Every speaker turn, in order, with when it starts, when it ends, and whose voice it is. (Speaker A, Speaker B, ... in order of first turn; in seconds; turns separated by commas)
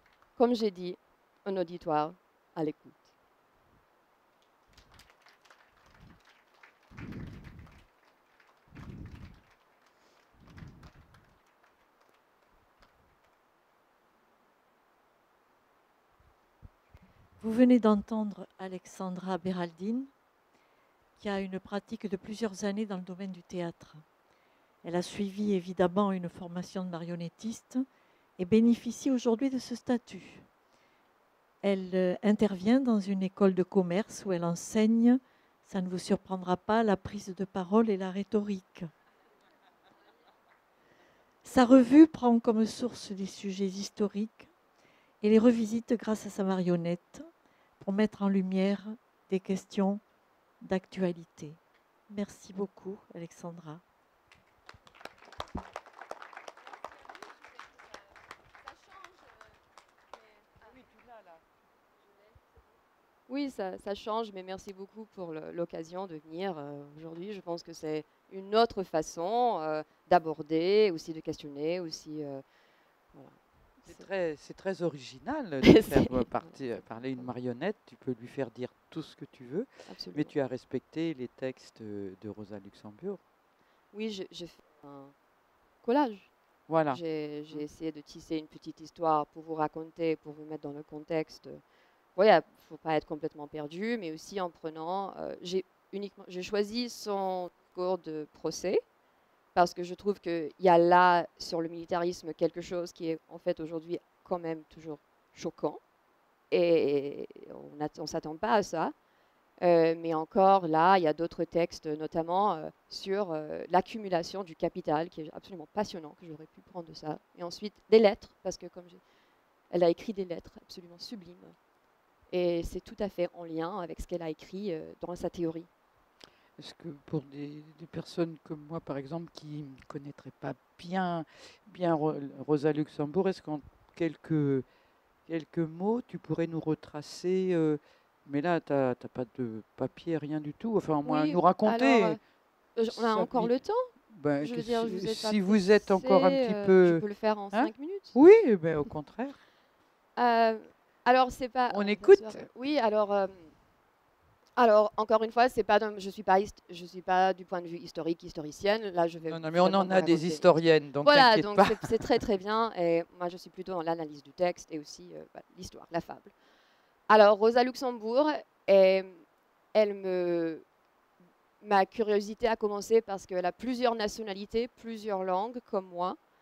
Speaker A: 0.4-3.0, Speaker B: 17.4-20.1, Speaker B: 21.2-24.0, Speaker B: 24.8-27.9, Speaker B: 28.4-30.5, Speaker B: 31.6-38.9, Speaker B: 41.4-44.5, Speaker B: 45.2-47.3, Speaker B: 47.8-50.0, Speaker B: 50.6-53.8, Speaker A: 63.3-72.4, Speaker A: 73.1-74.1, Speaker C: 73.9-83.2, Speaker A: 75.6-77.3, Speaker A: 79.9-80.3, Speaker A: 83.9-85.1, Speaker A: 85.8-86.3, Speaker C: 86.7-87.7, Speaker A: 86.9-91.6, Speaker A: 92.2-98.8, Speaker A: 99.5-105.8, Speaker A: 106.5-108.9, Speaker A: 109.6-119.0, Speaker A: 119.7-121.5, Speaker A: 122.3-125.7, Speaker C: 126.6-134.7, Speaker C: 135.3-142.2, Speaker A: 141.0-142.2, Speaker A: 142.8-148.2, Speaker C: 142.9-143.5, Speaker C: 144.1-149.4, Speaker A: 150.2-153.5, Speaker C: 151.7-152.5, Speaker A: 154.6-166.3, Speaker C: 159.3-162.1, Speaker A: 167.1-169.2, Speaker A: 169.7-170.7, Speaker A: 171.6-176.2